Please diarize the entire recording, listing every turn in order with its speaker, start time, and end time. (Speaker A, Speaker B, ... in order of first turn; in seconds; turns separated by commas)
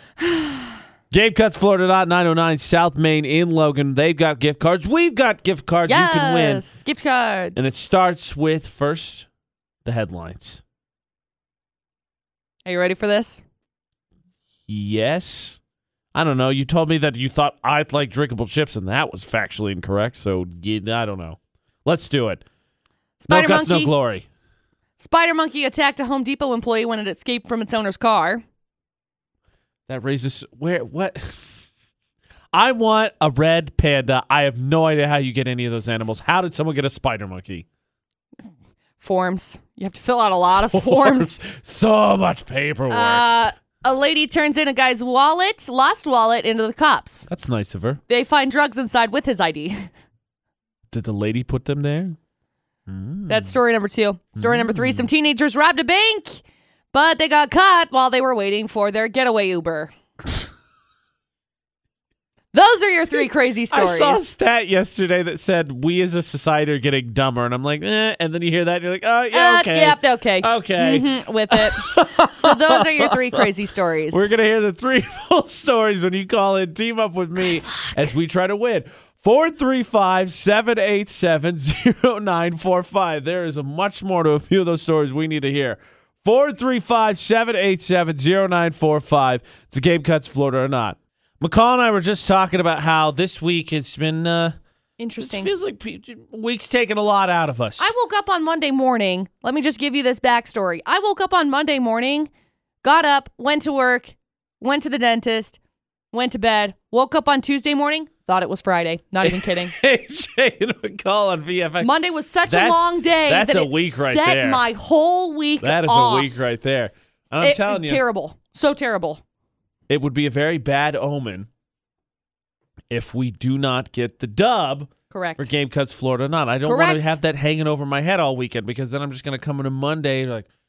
Speaker A: 0.2-0.8, Speaker B: 1.1-6.6, Speaker A: 5.9-7.7, Speaker B: 7.5-9.3, Speaker B: 9.8-10.6, Speaker A: 12.7-13.4, Speaker B: 14.7-15.6, Speaker B: 16.1-22.4, Speaker A: 23.2-23.9, Speaker B: 23.3-24.2, Speaker A: 25.0-28.4, Speaker B: 29.9-31.4, Speaker B: 32.5-37.6, Speaker A: 39.0-41.4, Speaker B: 40.5-43.4, Speaker A: 42.9-47.2, Speaker B: 47.3-48.0, Speaker A: 48.1-49.9, Speaker B: 50.9-52.1, Speaker B: 52.9-53.6, Speaker A: 53.3-56.4, Speaker B: 54.4-55.1, Speaker A: 56.9-59.9, Speaker A: 62.5-64.2, Speaker B: 63.7-73.5, Speaker A: 69.3-74.3, Speaker B: 74.1-94.5, Speaker A: 77.4-78.1, Speaker A: 95.0-95.5, Speaker B: 95.2-97.9, Speaker A: 97.8-102.3, Speaker A: 102.8-105.6, Speaker A: 106.1-109.7, Speaker B: 109.2-111.9, Speaker A: 111.8-116.5, Speaker B: 112.5-114.6, Speaker B: 115.6-118.0, Speaker A: 117.4-119.2, Speaker B: 119.9-121.5, Speaker B: 122.9-130.5, Speaker A: 125.1-125.5, Speaker A: 126.6-127.2